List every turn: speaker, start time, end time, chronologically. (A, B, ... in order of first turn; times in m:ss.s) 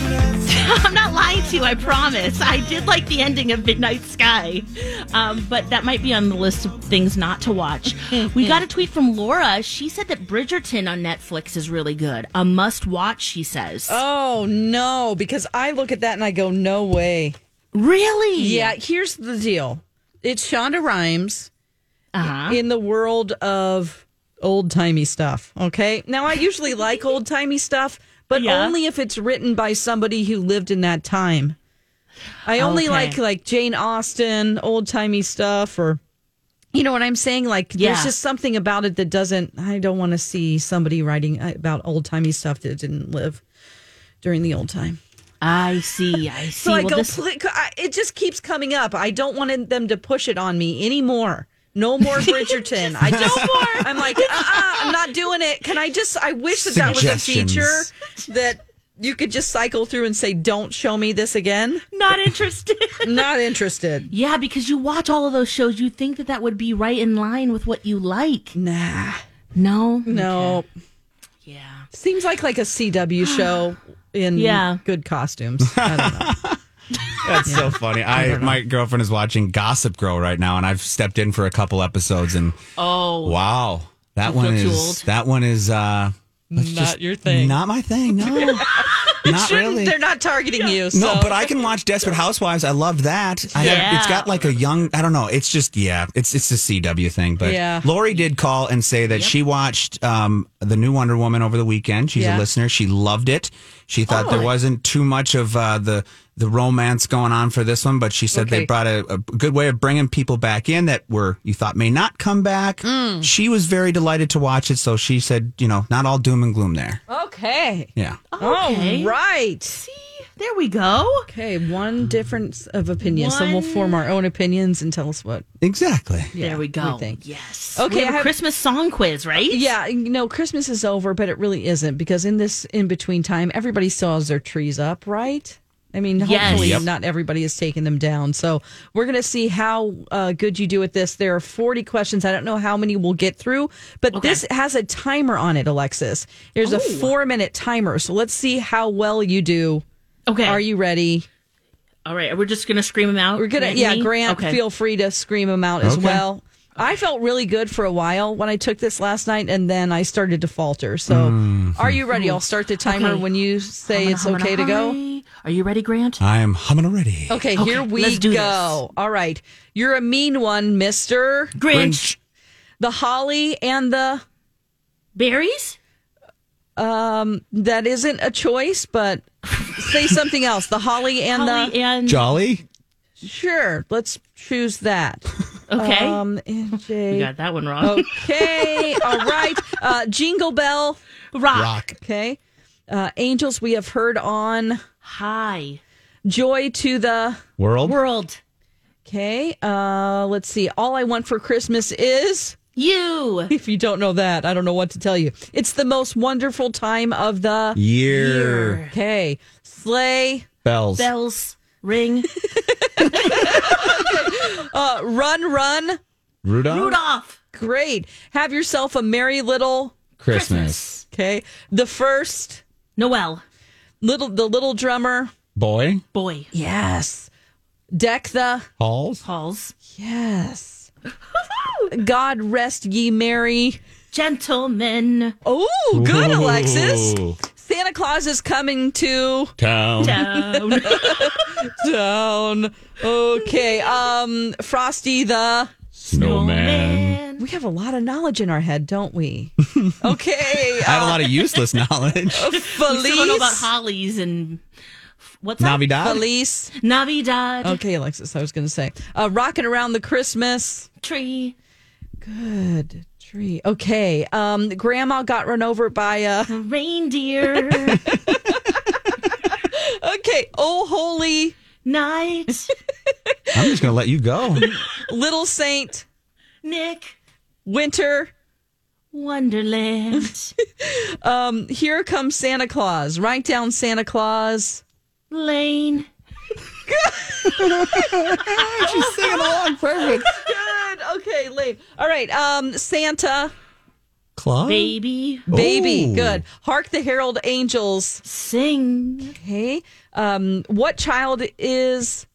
0:00.4-0:14.0 A
0:08.1-0:08.6 B
0:13.9-0:17.4 B
0:17.7-0:18.8 A
0:18.4-0:21.5 B
0:22.1-0:22.6 A
0:22.5-0:31.6 B
0:28.3-0:28.8 A
0:32.5-0:36.0 B
0:32.6-0:33.2 A
0:36.7-0:43.4 B
0:37.8-0:38.1 A
0:44.2-0:45.0 B
0:45.4-0:47.2 A
0:46.6-1:01.8 B
0:52.1-0:55.1 A
0:53.0-0:53.7 C
0:56.5-0:57.9 C
0:56.8-0:57.2 A
1:01.9-1:03.3 A
1:03.0-1:04.1 B
1:04.1-1:08.6 A
1:08.6-1:09.2 B
1:09.6-1:10.6 A
1:10.1-1:10.7 B
1:11.5-1:11.9 A
1:11.9-1:16.3 B
1:13.2-1:13.5 A
1:14.4-1:14.8 A
1:15.7-1:16.6 C
1:17.2-1:22.6 C
1:17.4-1:18.6 B
1:22.8-1:23.4 A
1:23.2-1:30.0 C
1:24.2-1:25.1 A
1:26.5-1:27.6 B
1:28.2-1:31.5 B
1:28.4-1:29.1 A
1:30.9-1:57.0 C
1:33.6-1:33.9 B
1:33.6-1:34.5 A
1:37.4-1:37.9 B
1:39.1-1:39.3 A
1:42.2-1:42.4 B
1:44.1-1:44.5 A
1:44.1-1:44.5 B
1:48.3-1:48.7 B
1:52.8-1:53.3 B
1:57.1-1:59.8 B
1:58.3-1:59.2 A
1:59.7-2:01.3 A
2:01.3-2:05.5 B
2:03.0-2:04.0 A
2:05.6-2:06.3 C
2:06.4-2:07.2 B
2:06.4-2:09.7 A
2:07.8-2:08.3 B
2:09.4-2:29.8 B
2:16.2-2:16.9 A
2:16.4-2:16.9 C
2:24.1-2:24.4 A
2:26.6-2:27.1 A
2:30.3-2:30.6 A
2:30.5-2:31.3 B
2:32.1-2:34.6 A
2:33.4-2:45.0 B
2:35.8-2:36.2 C
2:41.1-2:42.0 C
2:42.1-2:43.3 A
2:43.9-2:46.2 A
2:46.2-2:47.5 C
2:47.3-2:51.6 B
2:47.6-2:48.8 A
2:51.6-2:52.2 A
2:51.7-2:52.1 C
2:52.8-2:54.2 B
2:55.2-2:55.8 A
2:56.8-3:01.7 B
3:01.3-3:02.3 A
3:02.1-3:02.6 C
3:03.2-3:07.3 B
3:05.7-3:06.2 A
3:07.1-3:09.4 A
3:07.8-3:11.0 B
3:11.3-3:11.8 A
3:11.5-3:12.0 C
3:12.0-3:12.4 B
3:12.9-3:14.8 B
3:15.0-3:15.8 A
3:16.3-3:17.4 B
3:17.6-3:18.0 C
3:17.8-3:18.4 A
3:19.1-3:22.6 B
3:22.8-3:23.5 A
3:23.5-3:27.8 B
3:27.8-3:28.8 C
3:28.1-3:28.9 A
3:28.9-3:30.5 B
3:30.6-3:31.1 C
3:31.0-3:32.3 A
3:32.4-3:36.0 B
3:33.2-3:34.1 A
3:36.4-3:37.0 C
3:36.7-3:37.4 A
3:37.5-3:40.0 B
3:40.2-3:40.8 C
3:40.3-3:41.0 A
3:41.1-3:42.6 B
3:43.0-3:43.4 A
3:44.0-3:45.3 B
3:45.6-3:46.0 C
3:46.1-3:46.5 A
3:46.5-3:47.3 B
3:47.9-3:48.7 B
3:48.8-3:49.2 C
3:49.2-3:49.7 A
3:49.9-3:50.9 B
3:51.5-3:51.9 A
3:51.9-3:53.8 B
3:54.1-3:55.4 A
3:55.4-4:05.7 B
3:55.9-3:57.4 C
3:59.6-4:00.2 C
4:00.0-4:01.5 A
4:03.6-4:04.0 A
4:06.0-4:07.2 C
4:06.0-4:07.4 A
4:07.4-4:11.3 B
4:09.7-4:10.2 C
4:10.7-4:12.5 C
4:12.3-4:14.6 A
4:12.3-4:13.7 B
4:15.2-4:16.3 A
4:15.6-4:16.2 C
4:16.0-4:16.7 B
4:16.8-4:17.8 A
4:17.6-4:20.9 B
4:21.0-4:21.6 A
4:22.2-4:26.5 B
4:26.5-4:28.0 A
4:27.6-4:31.6 B
4:31.8-4:32.7 A
4:33.3-4:33.8 B
4:33.5-4:34.7 C
4:34.6-4:36.0 B
4:36.6-4:37.2 A
4:37.7-4:38.3 B
4:39.1-4:40.5 A
4:40.8-4:44.8 B
4:45.3-4:46.1 A
4:46.9-4:47.6 B
4:47.5-4:50.3 C
4:48.2-4:50.4 A
4:50.3-4:53.5 B
4:54.4-4:55.0 C
4:54.7-4:55.5 A
4:55.5-4:56.4 C
4:55.5-4:58.2 B
4:58.2-4:59.4 A
4:59.3-5:02.3 B